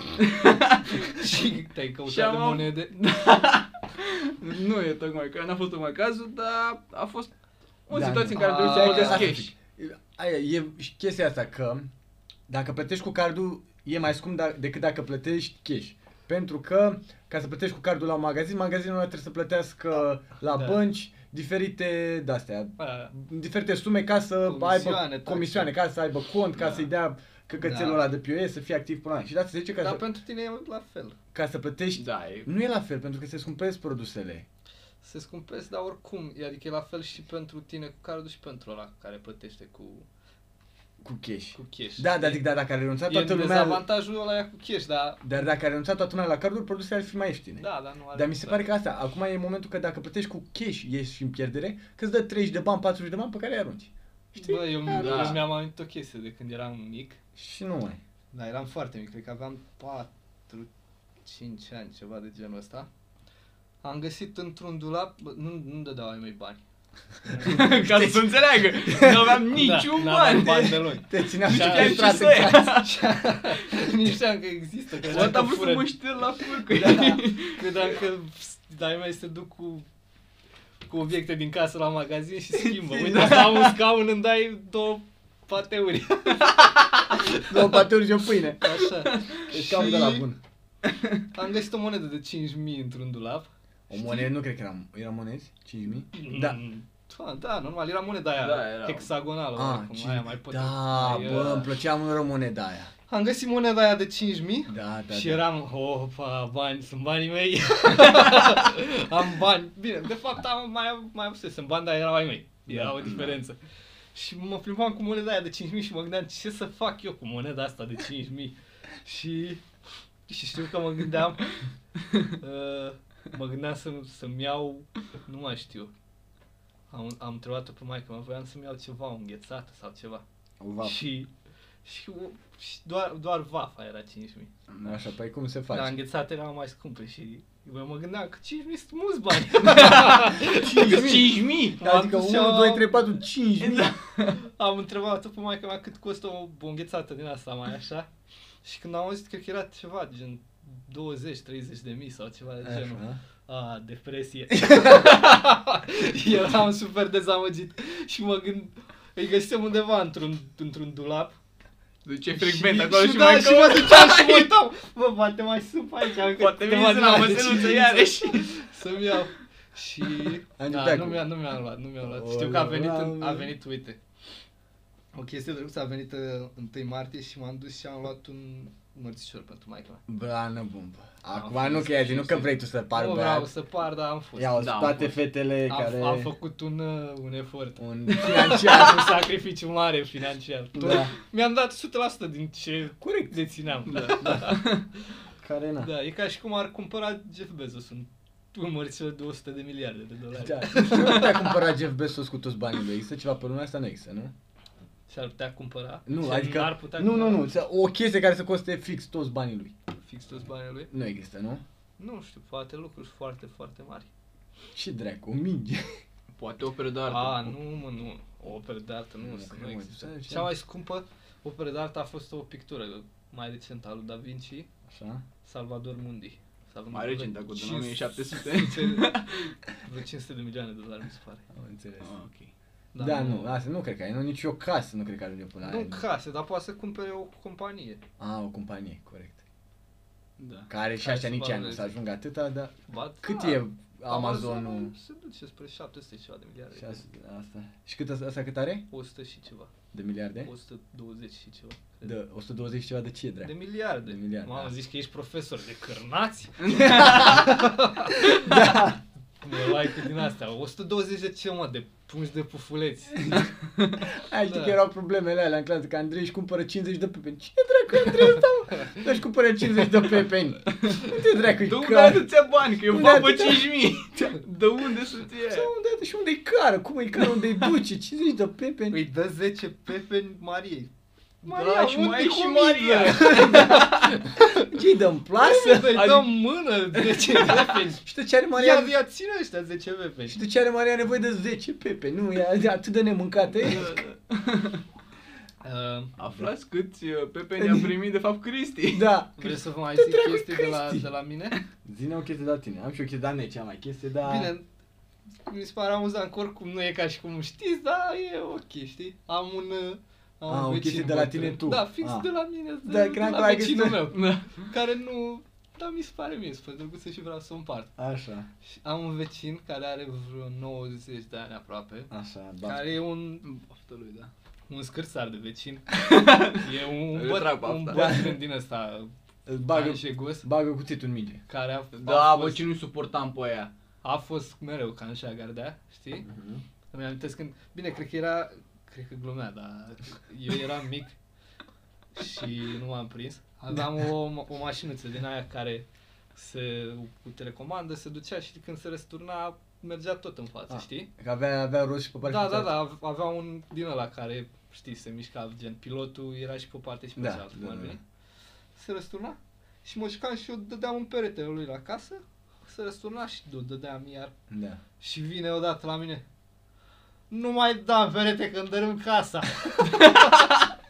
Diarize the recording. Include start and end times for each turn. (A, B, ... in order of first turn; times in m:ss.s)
0:00.2-0:01.2 A
0:01.1-0:02.9 B
0:02.1-0:07.3 A
0:07.9-0:09.5 A
0:07.9-0:11.9 C
0:08.3-0:09.4 B
0:12.5-0:30.0 C
0:20.5-0:20.8 B
0:22.8-0:23.1 B
0:24.4-0:25.7 B
0:27.6-0:28.0 B
0:29.8-0:31.2 B
0:31.3-0:34.5 C
0:32.0-0:32.5 A
0:35.0-0:40.1 B
0:41.0-0:43.8 C
0:41.5-0:42.4 B
0:43.1-0:45.2 B
0:45.2-0:55.4 C
0:47.6-0:48.6 B
0:54.4-0:57.2 B
0:54.9-0:55.5 A
0:57.4-0:58.0 C
0:58.3-1:00.7 B
1:01.2-1:02.9 B
1:03.8-1:06.6 B
1:07.3-1:07.6 B
1:07.4-1:09.4 C
1:07.4-1:13.1 A
1:09.5-1:15.9 B
1:11.1-1:12.8 C
1:15.1-1:17.9 A
1:16.7-1:19.9 B
1:20.9-1:27.5 B
1:22.9-1:23.4 C
1:23.1-1:23.5 A
1:27.2-1:28.9 C
1:28.6-1:30.3 B
1:29.4-1:30.4 C
1:30.8-1:31.2 A
1:31.3-1:34.3 B
1:33.9-1:36.6 C
1:36.1-1:41.7 B
1:38.4-1:39.1 A
1:39.6-1:42.9 C
1:43.1-1:53.6 B
1:44.7-1:45.4 C
1:52.7-1:53.2 C
1:53.0-1:53.3 A
1:54.1-1:59.6 B
2:00.3-2:01.6 B
2:02.3-2:05.9 B
2:06.9-2:10.2 B
2:10.6-2:11.0 C
2:10.8-2:11.3 B
2:11.8-2:14.5 B
2:14.7-2:15.0 A
2:14.8-2:16.0 C
2:15.7-2:21.1 B
2:19.6-2:21.8 A
2:20.3-2:23.9 C
2:21.8-2:23.0 B
2:23.6-2:24.4 A
2:24.3-2:28.1 B
2:28.6-2:41.4 B
2:32.6-2:33.2 C
2:42.0-2:44.5 A
2:42.4-2:54.0 B
2:46.2-2:48.5 A
2:50.6-2:51.3 C
2:52.0-2:53.5 C
2:55.1-3:00.0 B
3:00.1-3:03.5 C
3:01.3-3:05.0 B
3:04.4-3:06.3 C
3:04.6-3:05.1 A
3:05.7-3:14.8 B
3:07.8-3:09.2 C
3:10.7-3:11.1 C
3:13.0-3:13.4 C
3:13.9-3:14.8 A
3:15.4-3:15.9 C
3:15.8-3:21.6 B
3:20.4-3:24.3 C
3:25.1-3:27.5 B
3:26.1-3:29.7 C
3:30.0-3:30.9 B
3:30.9-3:31.6 C
3:32.0-3:34.1 B
3:34.7-3:35.9 C
3:36.4-3:37.6 A
3:37.1-3:44.7 B
3:39.2-3:40.5 C
3:44.9-3:45.2 C
3:45.4-3:51.5 B
3:46.9-3:49.4 A
3:51.5-3:52.1 C
3:52.0-3:52.5 A
3:52.9-3:53.5 B
3:53.0-3:56.0 C
3:55.6-3:58.0 B
3:58.2-3:59.4 C
4:00.4-4:00.7 A
4:00.7-4:04.9 C
4:01.0-4:02.0 B
4:02.9-4:07.0 B
4:06.8-4:08.9 C
4:08.9-4:09.7 B
4:09.9-4:10.5 C
4:10.4-4:12.1 B
4:12.0-4:13.5 C
4:13.4-4:23.5 B
4:14.0-4:14.7 C
4:16.6-4:17.7 A
4:17.0-4:17.5 C
4:18.2-4:19.0 C
4:24.0-4:32.3 C
4:24.4-4:24.8 B
4:30.7-4:35.7 A
4:32.9-4:33.7 C
4:35.5-4:39.0 C
4:38.9-4:40.9 B
4:41.4-4:44.6 B
4:41.4-4:44.2 A
4:43.0-4:46.2 C
4:45.4-4:48.0 B
4:46.0-4:46.3 A
4:48.0-4:49.0 C
4:48.6-4:50.4 B
4:50.3-4:53.9 C
4:53.6-4:54.8 A
4:55.6-4:56.1 B
4:56.2-4:59.1 A
4:57.6-4:57.9 C
4:58.9-5:01.1 C
4:59.4-5:01.6 B
5:01.8-5:04.5 C
5:04.2-5:04.6 B
5:05.5-5:17.9 B
5:10.5-5:12.3 C
5:12.8-5:14.2 C
5:14.1-5:14.7 A
5:18.0-5:18.5 C
5:18.6-5:22.1 B
5:22.1-5:22.9 C
5:22.6-5:23.4 B
5:23.4-5:24.3 A
5:24.7-5:25.9 B
5:26.0-5:28.0 A
5:26.5-5:29.1 B
5:27.9-5:28.4 C
5:29.5-5:31.4 C
5:29.7-5:30.5 B
5:31.5-5:32.6 B
5:31.9-5:33.7 A
5:34.0-5:36.3 B
5:36.3-5:36.6 C
5:36.9-5:41.2 B
5:42.2-5:51.1 B
5:50.7-5:52.8 C
5:52.2-5:58.0 B
5:57.2-5:58.0 C
5:58.8-6:04.3 B
6:04.5-6:04.8 C
6:05.0-6:06.2 B
6:07.3-6:10.5 B